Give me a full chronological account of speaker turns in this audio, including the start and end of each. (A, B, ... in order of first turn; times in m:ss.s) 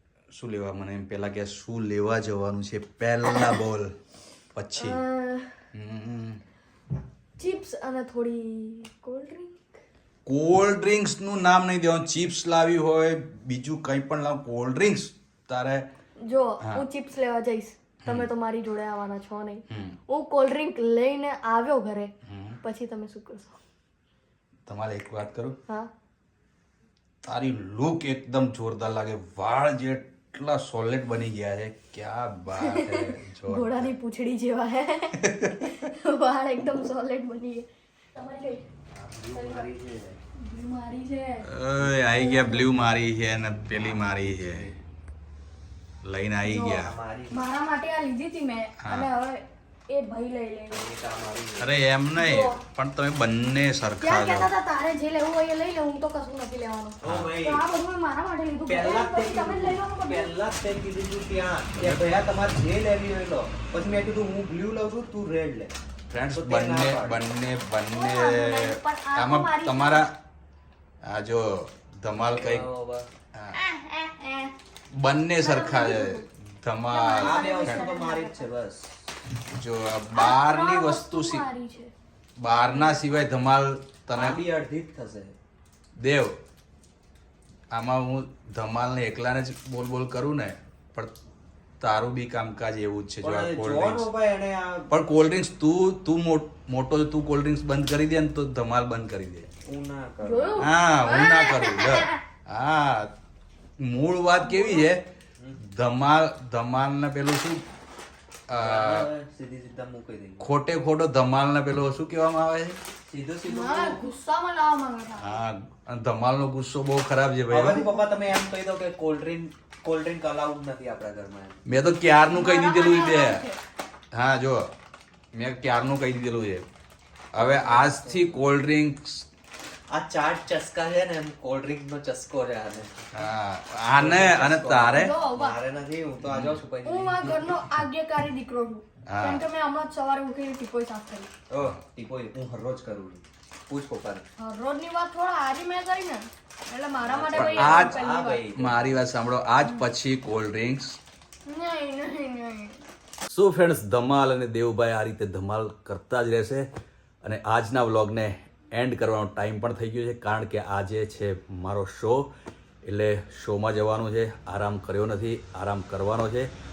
0:00.3-0:03.9 A
0:03.3-0:03.6 B
0:04.5-0:05.0 A
0:04.8-0:05.6 B
0:05.7-0:06.4 A
0:07.4-0:09.8 B
0:10.2-0:15.9 A
0:16.2-0:23.6 B
0:19.7-0:20.0 A
0:22.2-0:22.6 A
0:24.7-0:25.6 A
0:27.2-0:33.9 A
0:32.5-0:38.6 B
0:35.2-0:35.7 A
0:38.9-0:40.2 C
0:39.3-0:39.7 B
0:40.4-0:42.8 B
0:41.4-0:44.7 A
0:43.9-0:44.7 C
0:46.0-0:46.9 A
0:46.4-0:50.8 B
0:46.8-0:47.5 C
0:48.8-0:49.1 A
0:50.7-0:51.7 C
0:51.6-0:54.5 A
0:52.1-0:52.6 B
0:54.0-1:00.3 B
0:57.0-0:57.6 C
0:57.0-0:57.3 A
0:58.7-1:07.2 C
1:06.1-1:10.1 A
1:07.9-1:10.0 B
1:11.0-1:12.7 A
1:12.2-1:13.1 C
1:13.5-1:14.5 B
1:14.9-1:17.9 A
1:15.4-1:16.2 B
1:16.9-1:18.5 B
1:17.2-1:18.9 C
1:19.4-1:21.4 A
1:20.1-1:21.9 B
1:22.4-1:24.4 A
1:22.5-1:23.1 B
1:24.1-1:25.3 C
1:26.0-1:26.3 A
1:27.7-1:31.1 A
1:31.8-1:34.1 A
1:33.2-1:34.9 C
1:34.9-1:39.5 A
1:39.6-1:40.6 C
1:40.2-1:42.1 B
1:40.6-1:43.1 A
1:43.8-1:45.0 A
1:44.4-1:44.9 B
1:45.6-1:47.6 A
1:48.5-1:49.1 A
1:48.5-1:50.4 C
1:50.4-1:52.8 A
1:53.1-1:54.1 C
1:53.4-1:55.4 B
1:55.2-1:57.9 A
1:57.5-2:01.6 C
2:01.6-2:03.4 A
2:02.3-2:03.6 B
2:04.1-2:04.7 A
2:05.3-2:06.6 A
2:07.3-2:08.4 C
2:07.3-2:09.2 A
2:09.9-2:13.2 C
2:13.1-2:15.1 A
2:14.0-2:17.5 C
2:14.9-2:15.6 B
2:16.2-2:16.6 A
2:16.8-2:21.3 B
2:19.1-2:19.4 A
2:21.5-2:24.2 C
2:24.4-2:29.0 B
2:27.0-2:28.7 C
2:27.3-2:28.0 A
2:28.6-2:31.0 A
2:31.4-2:32.8 B
2:33.3-2:36.7 A
2:37.2-2:42.3 A
2:42.8-2:46.5 A